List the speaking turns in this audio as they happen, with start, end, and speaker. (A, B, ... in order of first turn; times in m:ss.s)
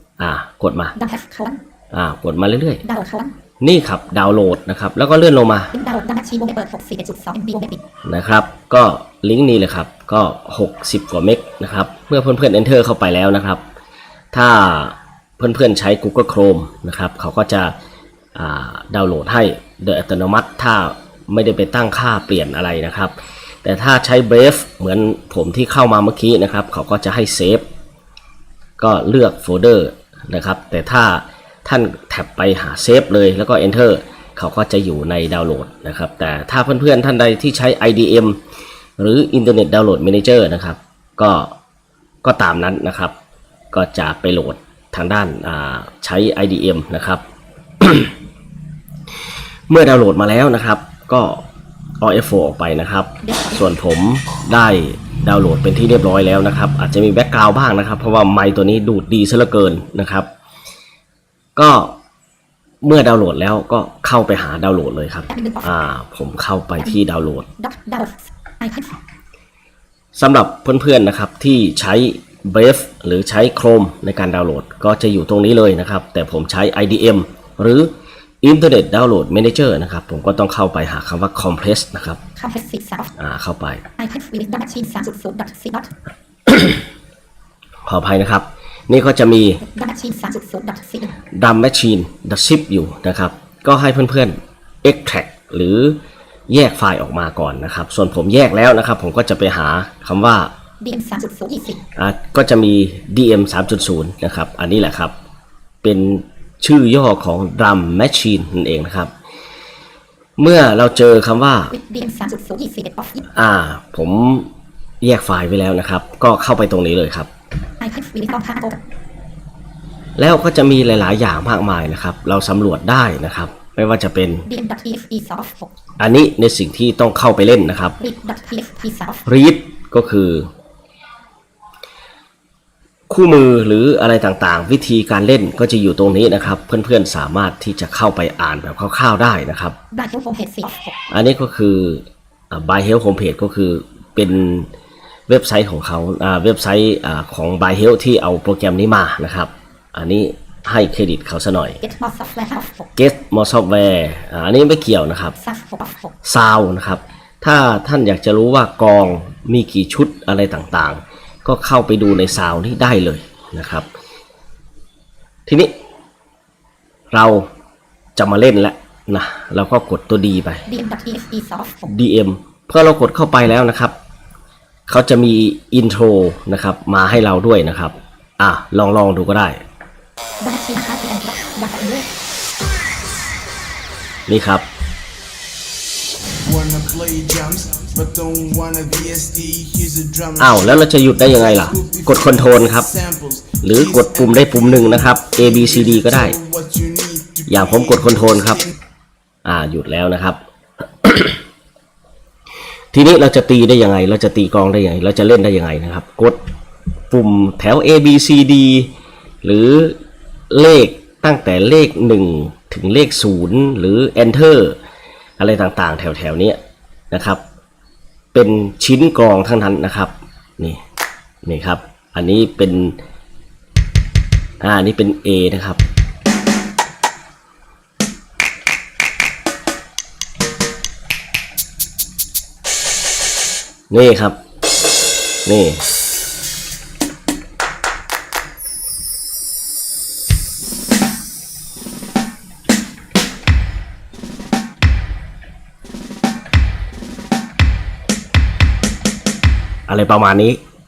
0:00.2-0:01.0 A
0:01.0-0:01.6 B
0:01.9-0:02.8 A
0:02.8-0:03.4 B
0:03.6-0:05.7 A
0:05.7-0:07.8 B
0:08.0-0:13.6 A
0:14.3-0:17.7 A
0:18.4-0:27.6 A
0:28.8-0:38.4 A
0:39.0-0:41.5 A
0:42.2-0:43.2 A
0:43.7-0:47.2 A
0:47.8-0:48.1 A
0:49.7-0:51.4 A
0:52.0-1:00.3 A
0:53.2-0:53.6 B
1:01.6-1:02.0 A
1:02.8-1:07.5 A
1:05.3-1:05.7 B
1:07.6-1:09.0 B
1:10.2-1:17.9 A
1:18.4-1:22.2 A
1:22.4-1:23.1 B
1:23.2-1:23.8 A
1:24.0-1:25.9 B
1:26.5-1:26.8 A
1:27.9-1:29.6 A
1:29.6-1:31.2 B
1:31.3-1:36.0 A
1:36.5-1:40.5 A
1:40.8-1:41.8 B
1:42.0-1:45.1 A
1:45.8-1:49.1 A
1:50.4-1:51.7 A
1:51.7-1:53.3 B
1:53.3-1:54.5 A
1:55.0-1:57.3 A
1:57.8-1:58.8 B
2:00.2-2:04.5 A
2:04.5-2:05.7 B
2:06.0-2:08.0 A
2:08.0-2:09.2 B
2:09.3-2:10.5 A
2:13.1-2:19.8 A
2:19.9-2:21.0 B
2:21.1-2:24.7 A
2:25.3-2:31.8 A
2:31.8-2:32.9 B
2:33.0-2:35.4 A
2:35.4-2:36.1 B
2:36.2-2:43.9 A
2:45.5-2:45.7 A
2:47.1-2:47.5 A
2:48.2-2:50.7 A
2:50.7-2:51.9 B
2:51.9-2:54.0 A
2:54.9-2:59.6 A
3:00.4-3:02.1 B
3:04.3-3:04.7 A
3:06.4-3:10.8 C
3:10.4-3:12.9 A
3:11.3-3:18.7 C
3:13.6-3:16.4 A
3:17.5-3:18.6 A
3:19.4-3:20.4 A
3:21.0-3:21.4 A
3:22.9-3:26.4 A
3:27.1-3:28.9 A
3:29.4-3:30.0 A
3:30.5-3:34.8 A
3:35.4-3:36.6 A
3:37.1-3:37.4 A
3:38.3-3:40.8 A
3:41.4-3:43.0 A
3:44.6-3:45.8 A
3:53.9-3:54.4 A
3:55.5-3:55.8 A
4:09.9-4:10.6 A